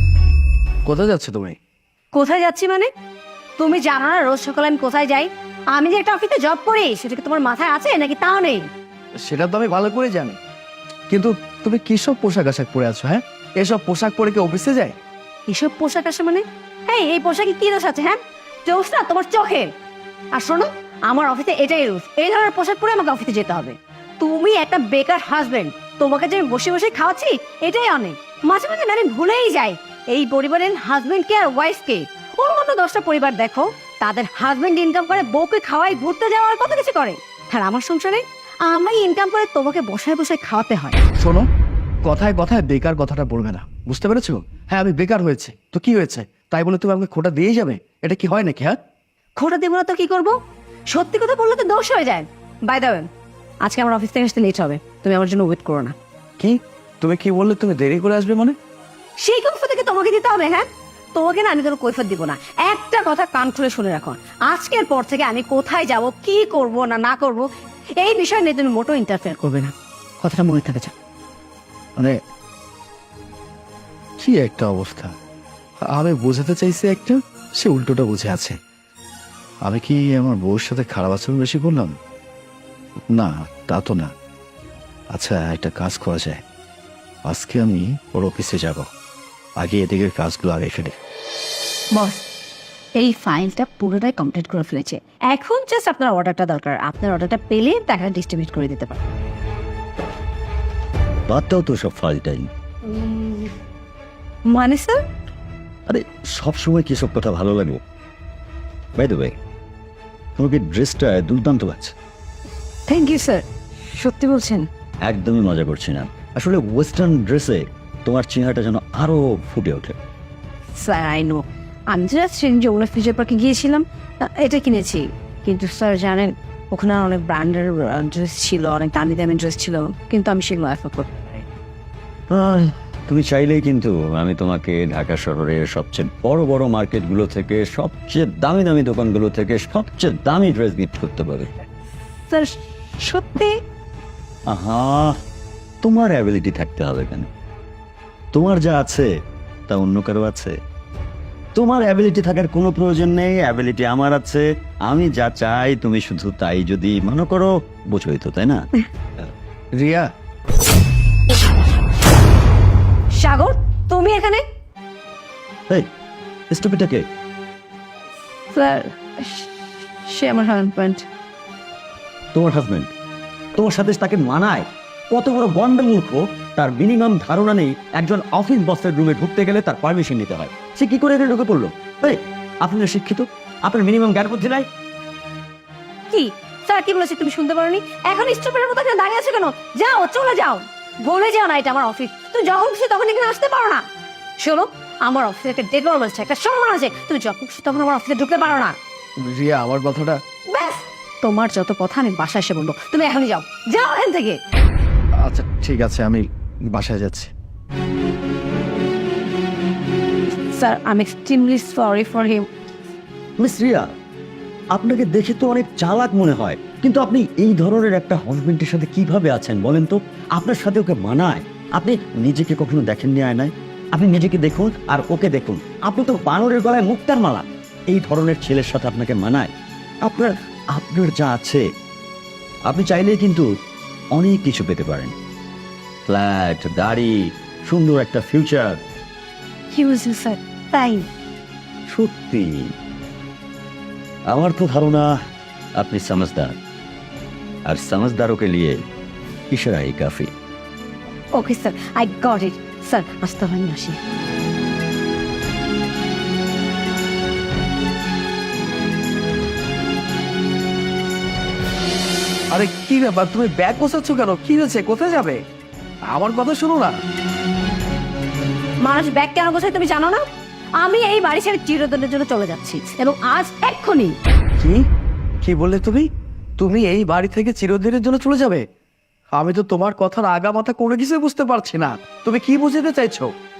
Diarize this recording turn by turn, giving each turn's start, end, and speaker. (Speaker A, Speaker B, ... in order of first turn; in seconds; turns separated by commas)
Speaker A: 0.8-1.6, Speaker B: 2.1-2.9, Speaker B: 3.6-8.7, Speaker A: 9.2-10.4, Speaker A: 11.1-14.9, Speaker B: 15.5-19.7, Speaker B: 20.3-41.0, Speaker A: 41.2-41.5, Speaker A: 42.0-48.8, Speaker B: 49.4-50.3, Speaker B: 50.9-53.0, Speaker B: 53.6-55.9, Speaker A: 56.4-58.5, Speaker B: 59.2-67.5, Speaker B: 68.0-70.9, Speaker A: 74.2-75.1, Speaker A: 75.9-78.5, Speaker A: 79.6-81.9, Speaker A: 83.1-84.1, Speaker A: 85.1-86.4, Speaker A: 87.2-88.9, Speaker A: 89.6-90.9, Speaker B: 91.9-92.2, Speaker B: 93.0-99.0, Speaker C: 101.3-102.5, Speaker B: 102.8-103.5, Speaker B: 104.5-105.0, Speaker C: 105.9-107.8, Speaker C: 109.0-109.3, Speaker C: 110.3-111.9, Speaker B: 112.9-114.7, Speaker C: 115.0-120.0, Speaker B: 120.8-131.4, Speaker C: 132.3-141.5, Speaker B: 142.3-143.6, Speaker C: 144.5-145.1, Speaker C: 145.8-147.3, Speaker C: 148.3-149.1, Speaker C: 149.7-150.5, Speaker C: 151.5-158.7, Speaker A: 159.8-160.1, Speaker B: 163.2-164.4, Speaker C: 166.5-167.1, Speaker B: 168.5-171.0, Speaker C: 172.3-172.9, Speaker C: 173.6-184.7, Speaker B: 186.1-193.8, Speaker B: 194.4-198.7, Speaker A: 199.2-200.2, Speaker B: 200.5-204.4, Speaker A: 205.2-207.3, Speaker B: 210.5-212.5, Speaker C: 213.4-213.9, Speaker C: 214.7-229.5, Speaker C: 230.0-231.6, Speaker C: 232.7-233.4, Speaker C: 234.1-235.1, Speaker C: 236.1-238.8, Speaker B: 239.7-241.1, Speaker C: 241.9-242.7, Speaker C: 244.3-245.1, Speaker C: 245.8-246.6, Speaker C: 247.7-248.8, Speaker C: 249.5-250.3, Speaker B: 251.3-254.0, Speaker A: 262.5-265.4, Speaker A: 266.1-267.0, Speaker B: 268.8-270.2, Speaker B: 270.8-274.1, Speaker A: 274.6-274.8, Speaker A: 275.4-278.6, Speaker A: 279.3-283.3